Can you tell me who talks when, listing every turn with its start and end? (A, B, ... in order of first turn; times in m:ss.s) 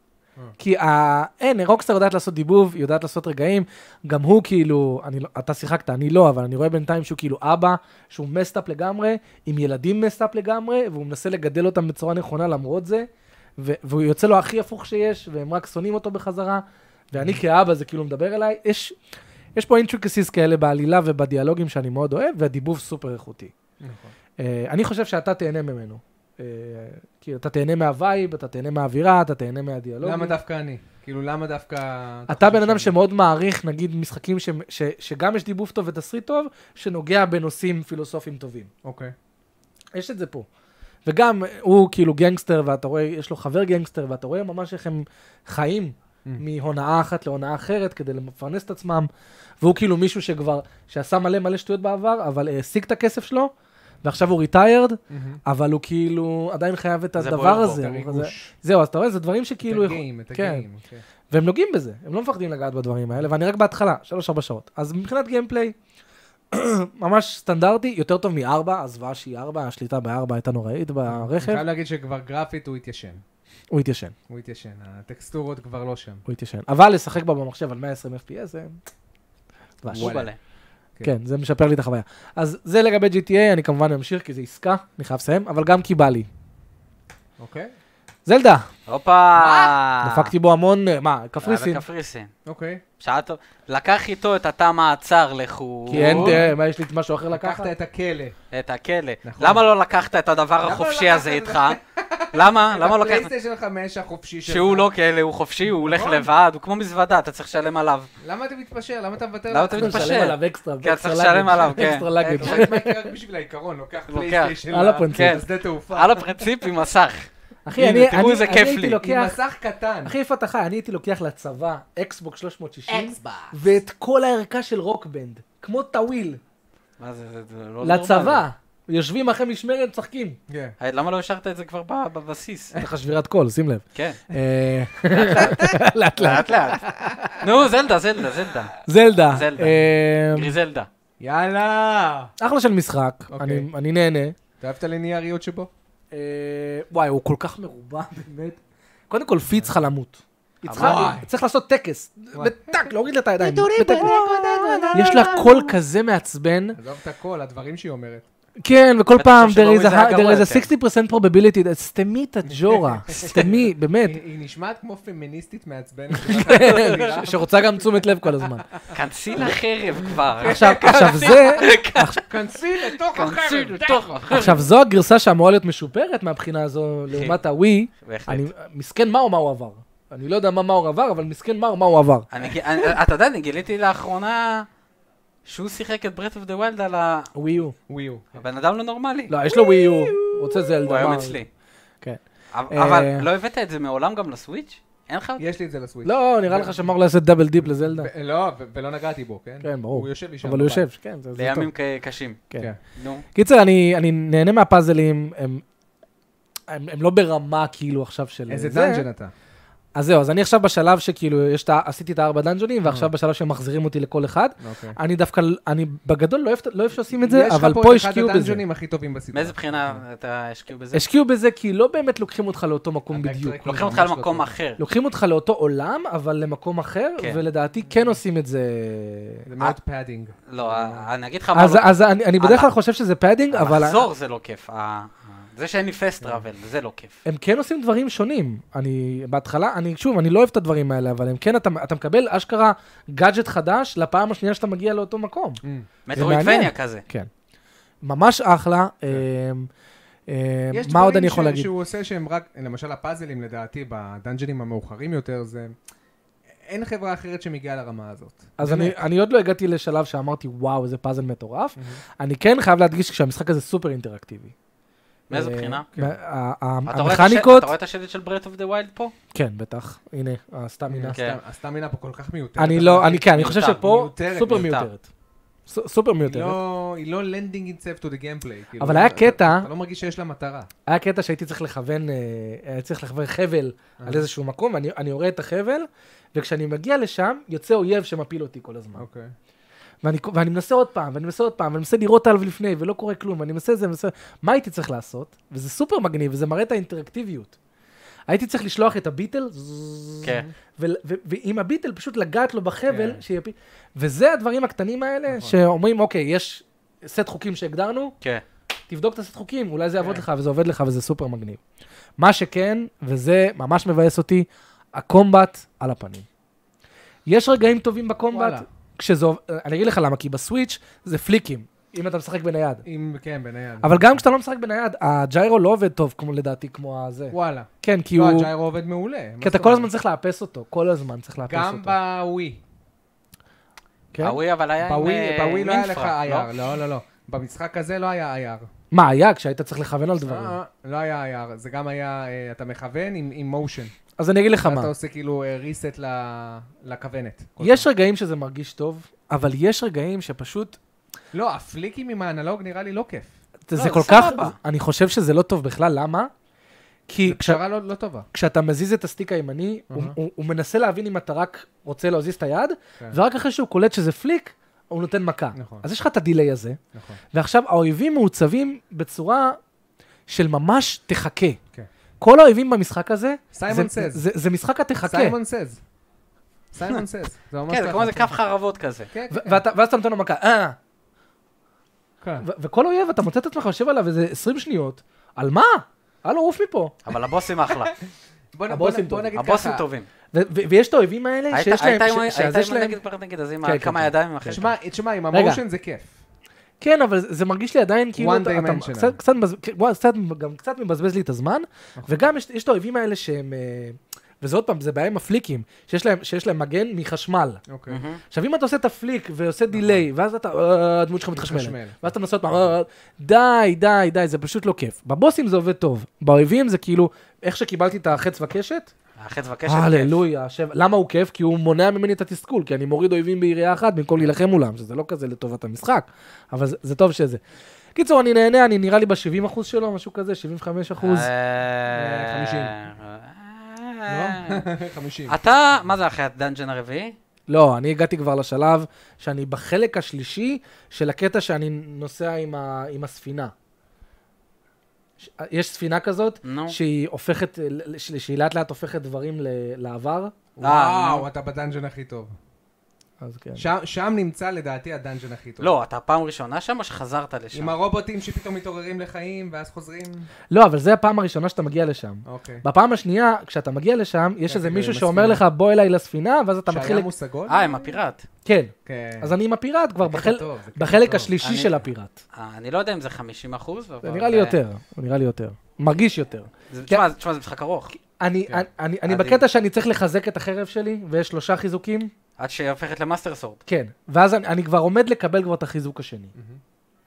0:00.6-0:18.9 A
0:17.2-0:17.4 B
0:19.6-0:23.5 A
0:23.8-0:24.1 B
0:24.4-0:30.4 A
0:30.0-0:33.0 B
0:32.3-0:38.7 A
0:38.8-0:39.1 B
0:39.9-0:40.5 A
0:41.1-0:49.1 A
0:49.6-0:53.5 A
0:54.0-1:00.7 A
0:55.1-0:55.4 B
0:57.2-0:57.8 C
0:57.6-0:58.5 B
0:59.6-1:01.0 B
1:01.3-1:05.7 A
1:06.5-1:11.7 A
1:11.1-1:13.2 B
1:13.7-1:14.1 A
1:14.3-1:16.2 B
1:16.3-1:18.8 A
1:19.8-1:20.2 A
1:19.9-1:20.4 C
1:19.9-1:20.3 B
1:21.0-1:26.3 A
1:27.4-1:27.7 B
1:28.3-1:28.7 A
1:28.9-1:30.3 C
1:29.4-1:29.8 B
1:30.0-1:31.8 A
1:31.4-1:32.3 C
1:32.4-1:32.8 B
1:33.0-1:36.4 C
1:35.9-1:36.6 B
1:35.9-1:37.7 A
1:37.3-1:38.4 B
1:38.5-1:41.8 C
1:39.2-1:39.6 B
1:40.6-1:44.9 B
1:42.3-1:43.3 C
1:44.5-1:48.1 C
1:45.7-1:46.3 B
1:48.2-1:50.2 B
1:49.5-1:52.7 C
1:49.8-1:53.1 A
1:52.3-1:56.2 B
1:54.1-1:54.6 C
1:54.7-1:55.4 A
1:55.1-1:59.0 C
1:57.7-1:59.4 A
1:59.0-2:00.2 B
2:00.0-2:06.4 A
2:02.9-2:03.7 B
2:07.0-2:08.4 C
2:07.8-2:10.4 A
2:10.5-2:10.8 B
2:10.8-2:12.8 C
2:12.8-2:16.6 A
2:14.0-2:14.2 C
2:15.1-2:18.8 C
2:15.3-2:15.7 B
2:16.7-2:17.4 B
2:18.8-2:20.5 A
2:19.3-2:19.8 C
2:20.3-2:20.9 C
2:21.2-2:22.3 B
2:22.4-2:24.4 A
2:23.3-2:23.7 B
2:24.6-2:25.7 B
2:26.1-2:28.6 A
2:29.1-2:36.8 A
2:30.7-2:31.2 C
2:30.7-2:31.3 B
2:32.3-2:35.8 B
2:36.8-2:38.3 B
2:38.6-2:44.2 A
2:39.2-2:40.7 C
2:42.5-2:47.7 B
2:46.1-2:48.7 A
2:48.9-2:52.2 C
2:50.3-2:51.6 B
2:50.4-2:52.2 A
2:52.3-2:54.6 B
2:53.0-2:54.6 C
2:54.3-3:02.3 A
2:57.1-2:57.4 C
2:58.0-2:58.5 C
3:02.3-3:04.7 C
3:05.4-3:07.3 C
3:07.4-3:07.8 A
3:07.9-3:08.4 B
3:08.4-3:09.4 C
3:09.3-3:11.4 A
3:09.5-3:10.2 B
3:10.8-3:11.5 C
3:10.9-3:11.2 B
3:12.0-3:13.3 A
3:12.5-3:15.4 C
3:15.4-3:16.9 B
3:16.0-3:18.1 A
3:17.8-3:20.9 B
3:19.6-3:21.7 A
3:21.4-3:22.4 C
3:23.0-3:23.2 C
3:23.4-3:25.6 A
3:26.7-3:29.1 A
3:28.5-3:29.3 B
3:30.0-3:38.6 A
3:34.6-3:35.0 B
3:37.2-3:40.0 B
3:39.3-3:41.1 C
3:40.9-3:43.9 A
3:43.1-3:44.5 B
3:43.6-3:44.8 C
3:44.8-3:49.5 A
3:47.2-3:47.4 C
3:47.9-3:48.2 B
3:49.5-3:51.0 B
3:50.5-3:52.7 C
3:51.5-3:54.1 A
3:53.5-3:57.2 C
3:57.2-4:05.6 A
4:05.6-4:05.9 B
4:06.1-4:07.0 C
4:06.2-4:07.3 A
4:08.0-4:09.7 A
4:10.3-4:11.7 A
4:10.7-4:15.8 B
4:16.6-4:19.0 B
4:18.6-4:24.5 A
4:25.3-4:25.9 C
4:25.3-4:27.7 A
4:26.9-4:29.1 C
4:29.3-4:31.2 A
4:30.9-4:34.8 B
4:31.1-4:31.4 C
4:32.6-4:35.0 A
4:33.3-4:33.8 C
4:34.4-4:34.9 C
4:35.7-4:36.6 A
4:36.2-4:40.7 B
4:38.8-4:39.7 A
4:40.9-4:49.0 A
4:44.0-4:44.3 B
4:49.0-4:49.4 B
4:50.0-4:57.5 A
4:58.3-5:08.2 A
5:00.2-5:00.5 B
5:02.9-5:03.2 B
5:05.3-5:05.6 B
5:08.9-5:11.6 A
5:10.0-5:10.3 B
5:12.2-5:16.2 A
5:17.3-5:22.8 A
5:18.3-5:18.7 B
5:22.8-5:24.2 B
5:23.8-5:28.5 A
5:27.3-5:29.9 B
5:29.4-5:32.0 A
5:31.5-5:32.6 B
5:34.1-5:34.4 A
5:34.2-5:36.5 C
5:34.8-5:38.7 B
5:38.9-5:40.6 A
5:40.2-5:43.9 B
5:44.2-5:44.9 A
5:44.6-5:47.9 B
5:47.6-5:50.8 A
5:51.3-5:53.3 B
5:53.7-5:56.3 A
5:53.7-5:54.6 C
5:57.1-5:57.6 A
5:57.2-5:58.3 B
5:58.3-6:06.8 A
5:59.9-6:00.2 B
6:05.6-6:05.8 B
6:06.9-6:07.2 B
6:07.3-6:09.6 A
6:10.3-6:11.6 A
6:12.2-6:15.4 A
6:13.5-6:14.2 B
6:15.0-6:15.8 B
6:16.7-6:18.4 B
6:17.7-6:19.1 C
6:19.1-6:19.6 B
6:19.3-6:20.8 A
6:22.2-6:22.5 B
6:22.4-6:27.0 A
6:27.0-6:27.9 C
6:28.5-6:29.8 B
6:28.7-6:29.3 A
6:29.4-6:30.1 C
6:30.3-6:33.0 A
6:31.5-6:34.7 C
6:33.6-6:34.6 A
6:34.5-6:36.2 B
6:35.3-6:35.6 A
6:36.8-6:47.6 A
6:38.2-6:39.2 B
6:42.0-6:42.2 B
6:47.7-6:48.0 B
6:47.9-6:48.2 C
6:48.3-6:58.9 A
6:49.7-6:50.0 B
6:51.4-6:52.0 B
6:59.2-7:00.2 C
6:59.7-7:07.4 A
7:08.0-7:11.3 A
7:11.0-7:14.6 C
7:11.9-7:12.8 B
7:14.1-7:15.4 B
7:15.3-7:17.2 C
7:17.5-7:23.5 A
7:25.2-7:30.3 A
7:26.4-7:26.8 C
7:30.6-7:32.3 B
7:30.6-7:31.3 C
7:33.2-7:33.7 A
7:33.6-7:35.8 B
7:35.6-7:37.8 C
7:37.5-7:40.3 B
7:40.5-7:47.1 A
7:42.2-7:42.6 B
7:44.5-7:45.4 B
7:46.7-7:47.7 B
7:47.5-7:48.2 C
7:48.4-7:52.2 A
7:48.9-7:49.4 B
7:50.0-7:51.4 B
7:51.4-7:51.8 C
7:52.3-7:54.6 C
7:54.0-7:57.0 A
7:56.7-7:58.0 C
7:58.2-8:02.1 A
7:59.1-7:59.4 C
8:02.4-8:03.6 C
8:03.7-8:06.3 A
8:06.3-8:06.6 B